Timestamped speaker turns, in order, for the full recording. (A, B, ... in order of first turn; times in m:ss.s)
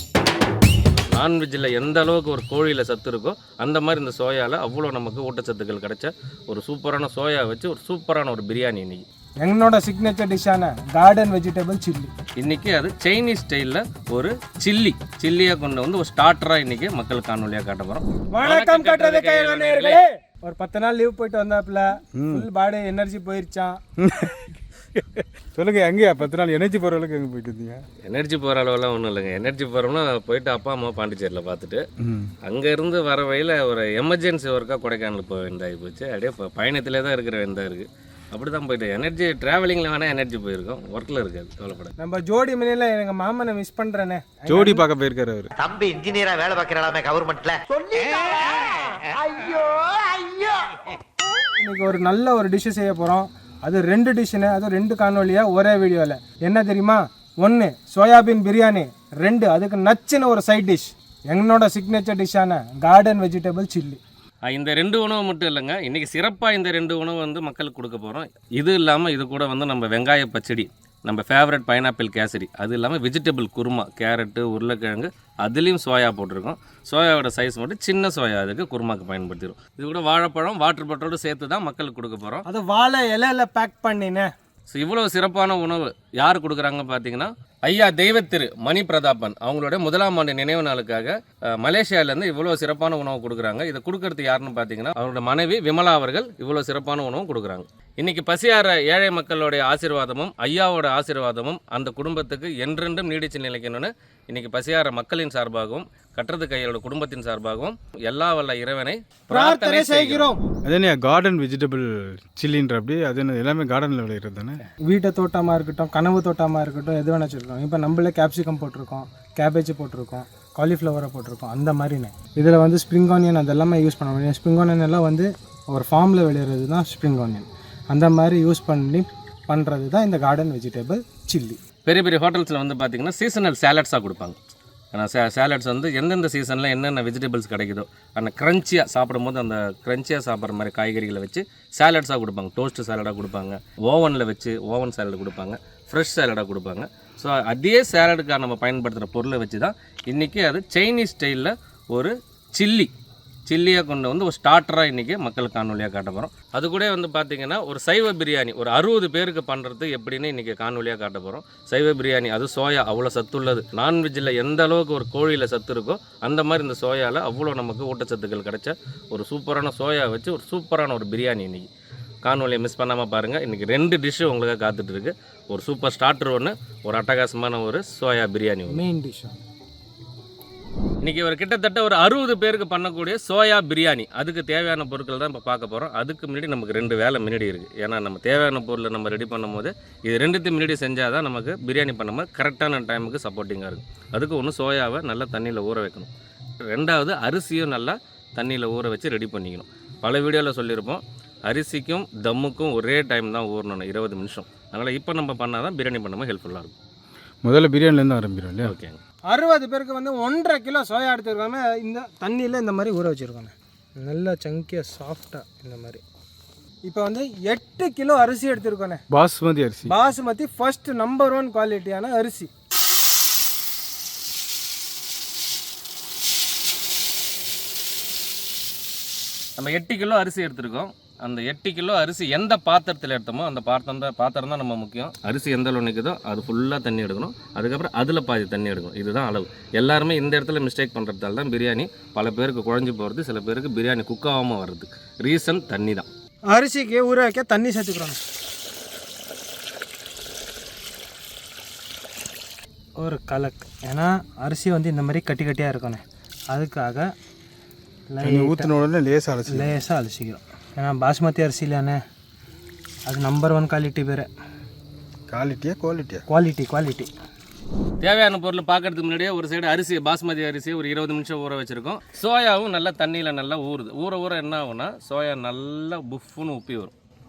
0:01.1-0:09.0 A
0:09.4-0:12.1 B
0:12.4-0:20.0 A
0:18.3-0:23.8 B
0:22.2-0:22.4 C
0:24.0-0:24.4 C
0:24.9-0:27.8 C
0:28.0-0:31.8 A
0:32.0-0:32.3 C
0:32.4-0:41.9 A
0:42.0-0:44.8 B
0:44.5-0:45.5 C
0:45.6-0:50.8 D
0:51.6-1:04.0 B
1:04.4-1:22.4 A
1:22.4-1:24.3 B
1:24.7-1:50.3 A
1:49.3-1:50.4 B
1:50.6-1:54.6 C
1:54.8-2:11.6 B
2:11.8-2:14.4 A
2:14.9-2:32.9 A
2:33.5-2:51.7 A
2:52.2-2:58.8 A
2:58.7-2:59.4 B
3:01.0-3:16.1 A
3:16.6-3:26.7 A
3:27.4-3:28.7 C
3:28.6-3:29.0 A
3:29.3-3:36.0 B
3:36.8-3:39.0 B
3:39.1-3:39.9 C
3:39.9-3:42.5 B
3:49.6-4:06.1 A
4:06.5-4:08.2 B
4:13.0-4:17.1 B
4:18.1-4:18.7 B
4:18.2-4:19.7 C
4:19.5-4:22.0 B
4:23.1-4:24.3 B
4:25.3-4:26.2 C
4:26.3-4:27.1 B
4:28.0-4:36.9 A